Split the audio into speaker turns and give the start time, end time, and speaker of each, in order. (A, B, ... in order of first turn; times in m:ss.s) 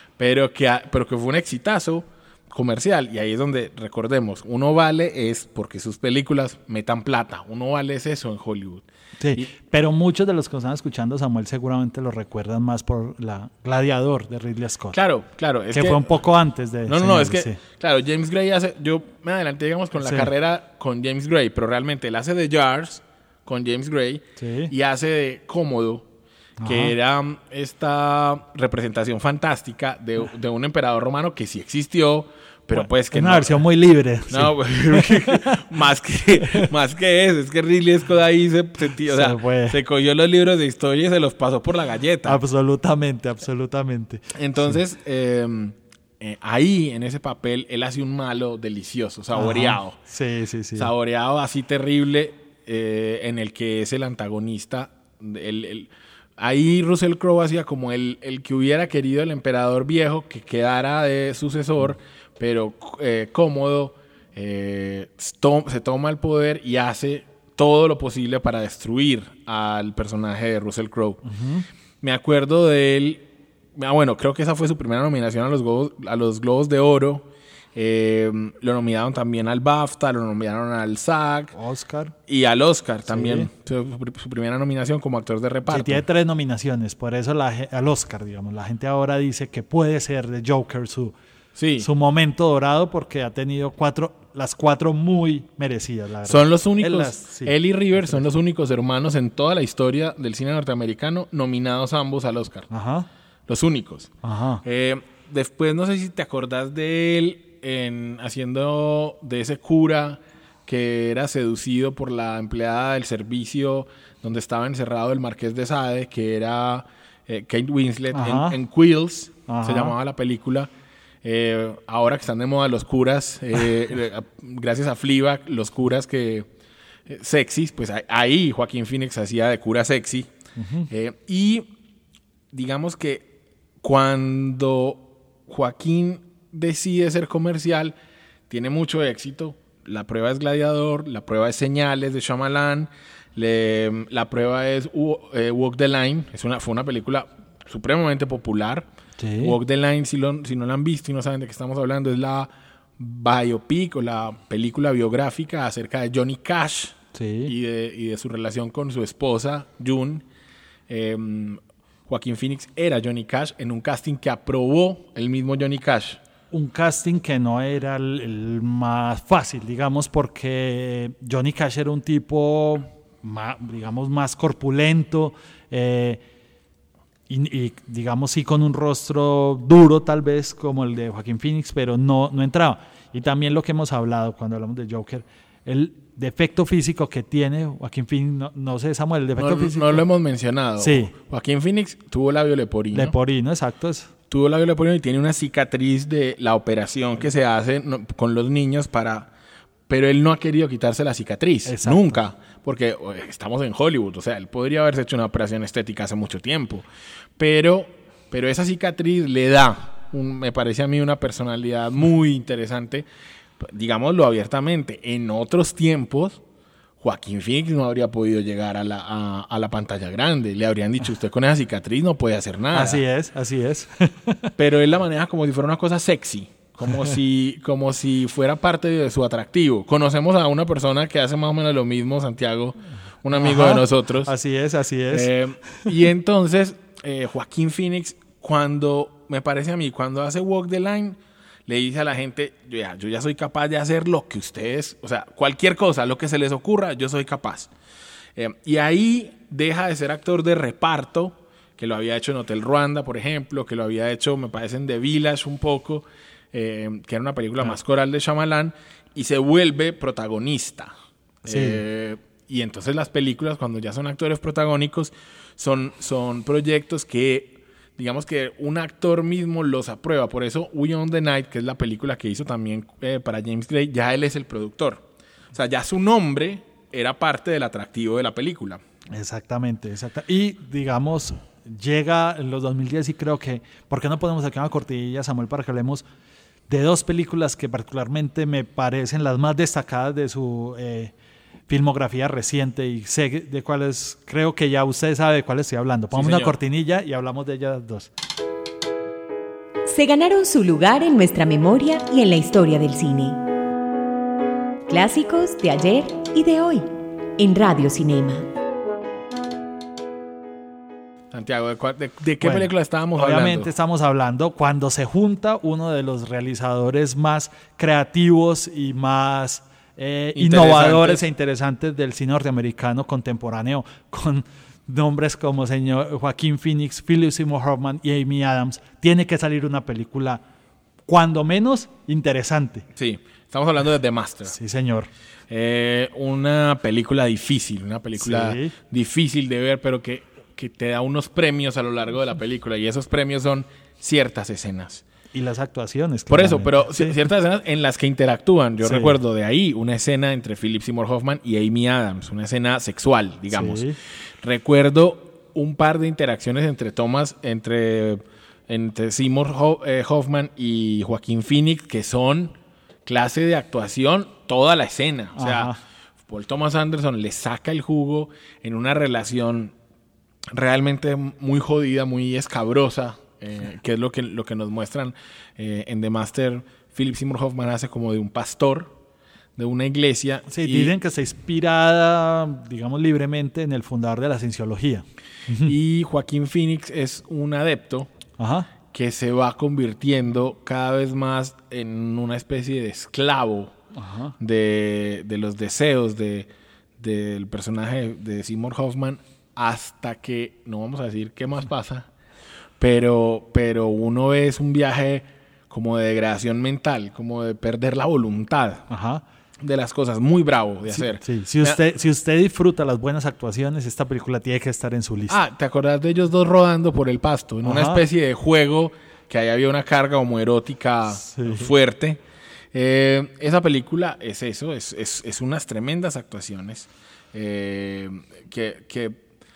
0:00.2-0:09.5 A
0:09.2-0:15.0 B
0:14.9-0:16.2 A
0:15.7-0:17.6 B
0:16.9-0:26.1 A
0:20.0-0:20.3 B
0:24.4-0:24.7 B
0:26.6-0:27.0 B
0:26.6-0:33.6 A
0:32.8-0:35.6 B
0:34.3-0:42.4 A
0:39.1-0:39.8 B
0:42.2-0:44.3 B
0:44.3-0:50.0 A
0:49.3-0:50.9 B
0:50.8-1:11.2 A
1:11.3-1:11.7 B
1:12.0-1:21.5 A
1:21.5-1:22.1 B
1:22.3-1:26.0 A
1:23.1-1:23.5 B
1:25.7-1:31.2 B
1:31.6-1:31.9 A
1:31.8-1:38.2 B
1:36.3-1:42.7 A
1:42.7-1:43.1 B
1:43.5-2:00.7 A
1:44.2-1:44.6 B
1:58.1-1:58.6 B
1:59.5-1:59.9 B
2:01.2-2:06.5 A
2:07.1-2:10.3 A
2:10.6-2:10.9 B
2:10.9-2:11.7 A
2:12.5-2:13.3 A
2:13.8-2:18.0 A
2:18.5-2:28.9 A
2:29.2-2:29.6 B
2:29.4-2:40.2 A
2:37.1-2:37.5 B
2:40.9-2:46.2 A
2:46.5-2:56.2 B
2:57.3-3:10.0 B
3:09.4-3:13.2 A
3:10.8-3:11.1 B
3:12.9-3:14.1 B
3:14.3-3:19.3 A
3:19.9-3:26.9 A
3:21.7-3:22.2 B
3:27.4-3:33.1 A
3:33.6-3:36.4 A
3:37.0-3:43.0 A
3:42.7-3:44.5 B
3:44.6-3:54.3 A
3:53.3-3:55.3 B
3:55.1-4:07.7 A
4:08.4-4:20.9 A
4:21.4-4:38.8 A
4:21.5-4:21.8 B
4:39.1-4:46.0 B
4:46.7-4:51.1 B
4:51.7-4:58.1 B
4:56.1-4:56.6 A
4:59.9-5:03.4 C
5:04.9-5:08.5 C
5:11.3-5:13.7 A
5:12.4-5:30.4 B
5:20.4-5:21.3 A
5:31.1-5:32.9 B
5:33.0-5:34.6 A
5:34.5-5:35.1 B
5:35.5-5:45.0 A
5:38.2-5:38.7 B
5:45.3-5:47.2 B
5:46.3-5:53.9 A
5:48.8-5:49.1 B
5:53.5-5:54.0 B
5:54.4-6:02.6 A
6:03.1-6:05.7 A
6:05.4-6:05.8 B
6:06.3-6:09.7 A
6:10.5-6:18.9 A
6:19.6-6:21.0 A
6:20.5-6:25.7 B
6:25.6-6:28.1 A
6:28.4-6:28.7 B
6:28.9-6:33.7 A
6:34.0-6:34.4 B
6:34.4-6:42.1 A
6:42.8-6:48.9 A
6:48.9-6:49.2 B
6:49.6-6:51.8 A
6:51.0-6:55.4 B
6:55.3-7:02.2 A
6:57.6-6:58.0 B
7:01.2-7:01.7 B
7:02.7-7:09.2 A